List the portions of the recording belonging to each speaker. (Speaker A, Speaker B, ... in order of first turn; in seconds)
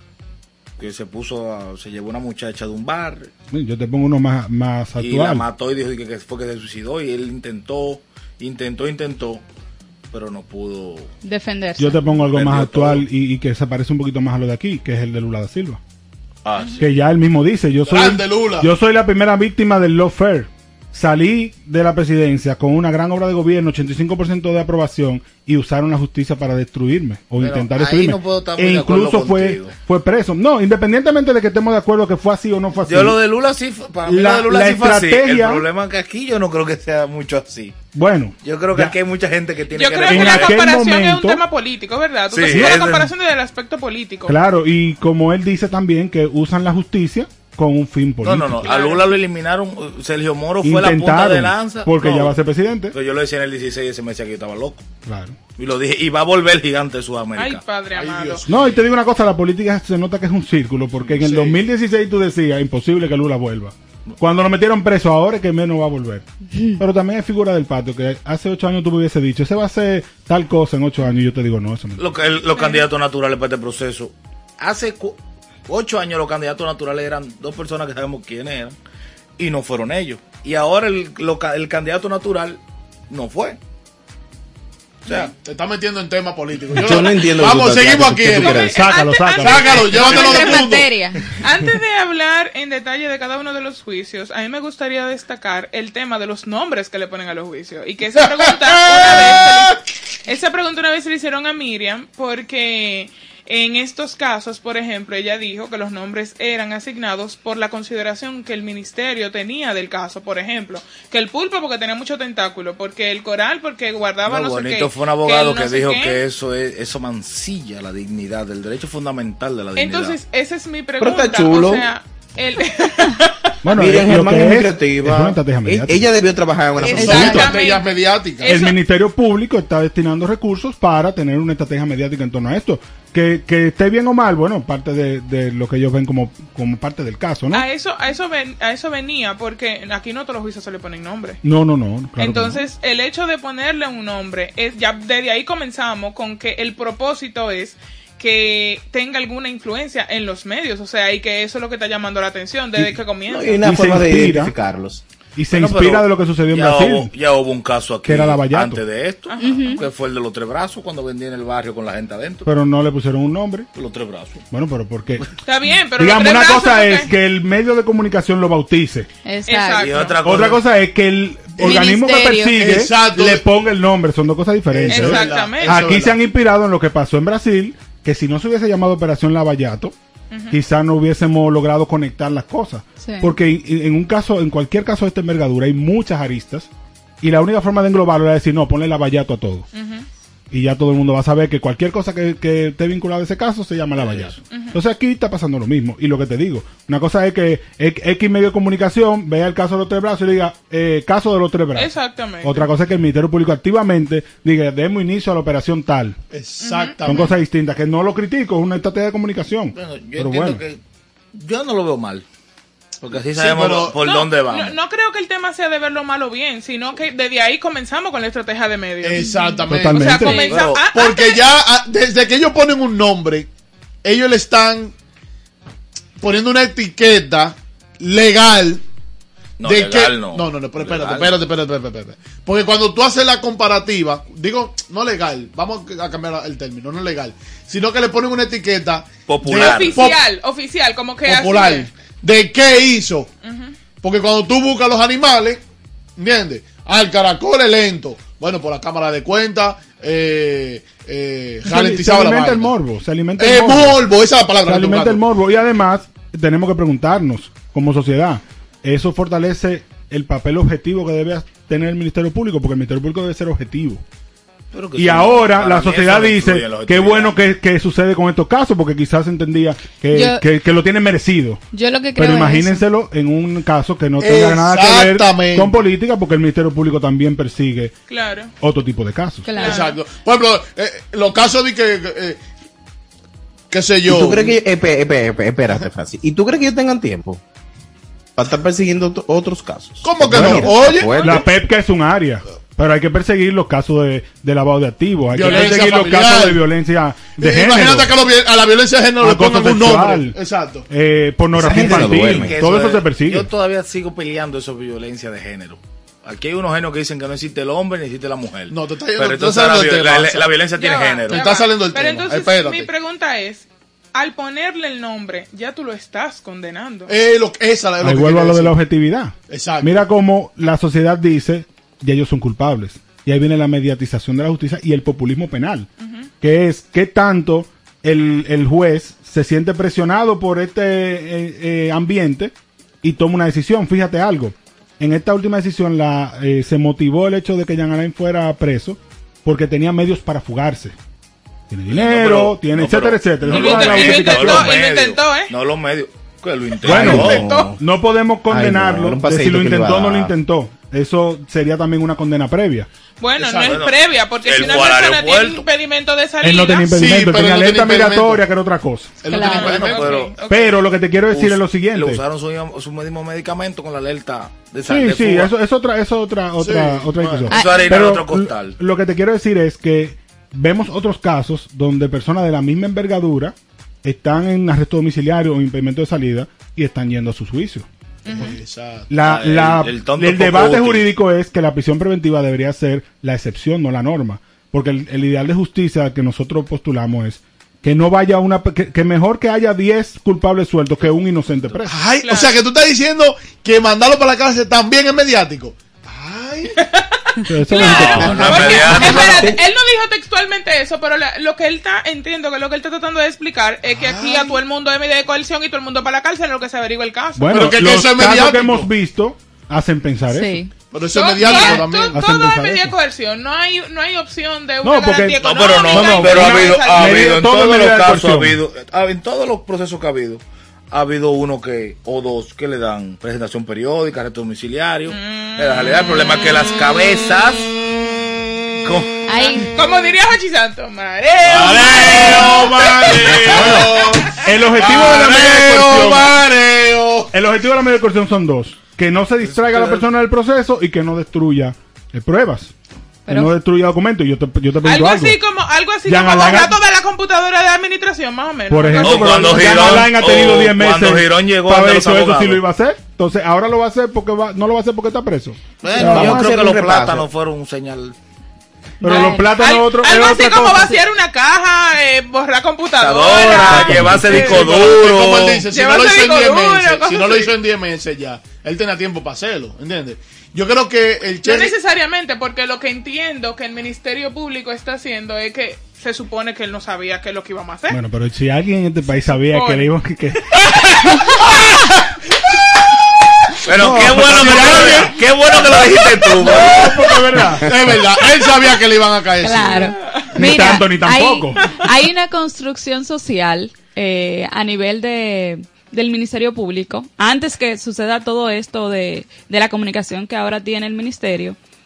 Speaker A: 0.8-3.3, 5.0-9.4, 10.1-11.1, 12.2-13.1, 16.4-16.9, 27.4-29.8, 32.8-37.8, 38.4-40.6, 42.3-43.1, 48.2-52.4, 52.9-54.9, 55.6-57.6, 72.0-78.8, 79.4-82.6, 83.1-83.6, 114.3-120.2, 155.5-162.5, 163.8-164.4, 169.8-170.6, 194.0-194.3, 209.7-210.8, 211.3-212.2, 213.0-214.8, 220.5-220.8, 229.6-231.4, 239.3-240.0, 264.7-267.4, 301.7-311.4, 341.9-347.5, 353.7-355.7, 359.5-360.4, 361.3-365.5, 367.3-368.8, 379.2-381.1, 397.8-399.6, 415.4-427.8, 428.8-429.2, 431.6-432.4, 449.0-452.6, 455.8-458.2, 463.0-465.6, 483.6-486.8
Speaker B: 3.5-5.5, 11.8-15.8, 16.8-33.2, 34.0-35.7, 38.0-39.0, 40.0-41.4, 42.5-43.0, 44.3-48.7, 50.6-53.0, 55.1-55.4, 58.5-66.2, 66.8-72.2, 88.7-89.9, 123.6-126.1, 128.5-137.7, 141.4-142.6, 153.6-154.5, 155.4-157.1, 158.1-158.8, 162.5-163.7, 164.5-165.3, 166.0-169.1, 170.2-179.9, 180.5-186.7, 187.2-189.7, 190.5-206.2, 207.1-210.6, 219.7-220.4, 251.6-254.1, 254.7-264.0, 265.0-271.6, 272.1-277.9, 278.6-279.5, 290.3-298.1, 299.2-300.4, 300.9-303.5, 318.0-325.9, 326.4-340.9, 341.7-344.7, 346.8-352.9, 356.4-359.2, 360.5-362.2, 364.8-377.9, 379.1-391.9, 397.4-398.9, 407.4-410.6, 412.1-412.9, 414.8-418.6, 433.4-436.4, 437.3-442.7, 443.3-445.4, 446.1-446.8, 448.7-456.5, 459.0-461.0, 463.7-464.7, 477.9-480.9, 483.8-485.1, 486.4-488.0, 490.4-491.7
Speaker C: 11.2-12.0, 90.1-91.3, 159.4-159.8, 169.2-169.9, 171.6-172.7, 183.0-183.3, 220.2-220.6, 270.1-270.4, 271.7-272.8, 279.4-279.9, 359.3-359.8, 367.5-368.0, 410.3-410.7, 411.4-412.0, 429.3-429.7, 443.3-443.5, 459.0-459.5, 489.4-501.6
Speaker D: 17.9-18.7, 57.9-58.7, 61.2-61.6, 85.4-88.7, 89.4-91.0, 98.2-99.8, 126.9-128.5, 171.6-171.9, 172.5-173.4, 174.7-176.2, 206.3-207.3, 213.3-214.0, 219.0-223.5, 224.0-224.9, 226.2-228.8, 229.6-240.2, 241.3-243.3, 244.0-245.6, 246.2-252.7, 253.4-255.2, 274.2-275.8, 279.6-282.4, 283.7-284.6, 290.0-291.3, 295.3-296.6, 297.4-300.9, 308.7-310.5, 311.3-312.9, 317.1-318.8, 319.5-320.1, 353.4-353.9, 356.9-358.4, 359.2-360.2, 366.6-367.3, 378.3-379.1, 391.9-396.8, 403.9-404.6, 407.5-408.9, 410.9-412.2, 431.5-437.3, 464.3-471.7, 483.8-485.2, 486.4-490.2
Speaker E: 39.7-44.4, 48.6-49.1, 57.4-58.4, 72.5-72.8, 88.3-90.7, 91.3-116.2, 119.8-123.5, 126.8-128.8, 137.5-141.4, 142.2-153.6, 159.3-159.8, 165.4-167.1, 169.5-170.2, 174.9-175.9, 180.3-180.6, 189.7-190.1, 194.5-194.8, 201.8-202.7, 206.6-207.3, 214.0-221.4, 239.5-241.9, 243.4-243.8, 278.1-278.5, 279.6-279.9, 310.8-317.1, 326.0-326.3, 343.5-345.5, 347.1-347.7, 353.2-356.9, 359.4-360.7, 378.2-378.6, 392.2-392.6, 396.8-407.7, 411.1-417.3, 425.1-425.9, 429.4-434.3, 444.8-450.0, 459.6-464.8, 465.7-467.5, 471.4-478.0, 479.3-479.9
Speaker F: 86.7-88.8, 121.0-121.9, 123.7-127.5, 153.3-155.0, 284.1-287.4, 288.4-291.5, 301.5-302.6, 346.9-347.8, 348.5-350.3, 398.0-399.6, 455.9-457.3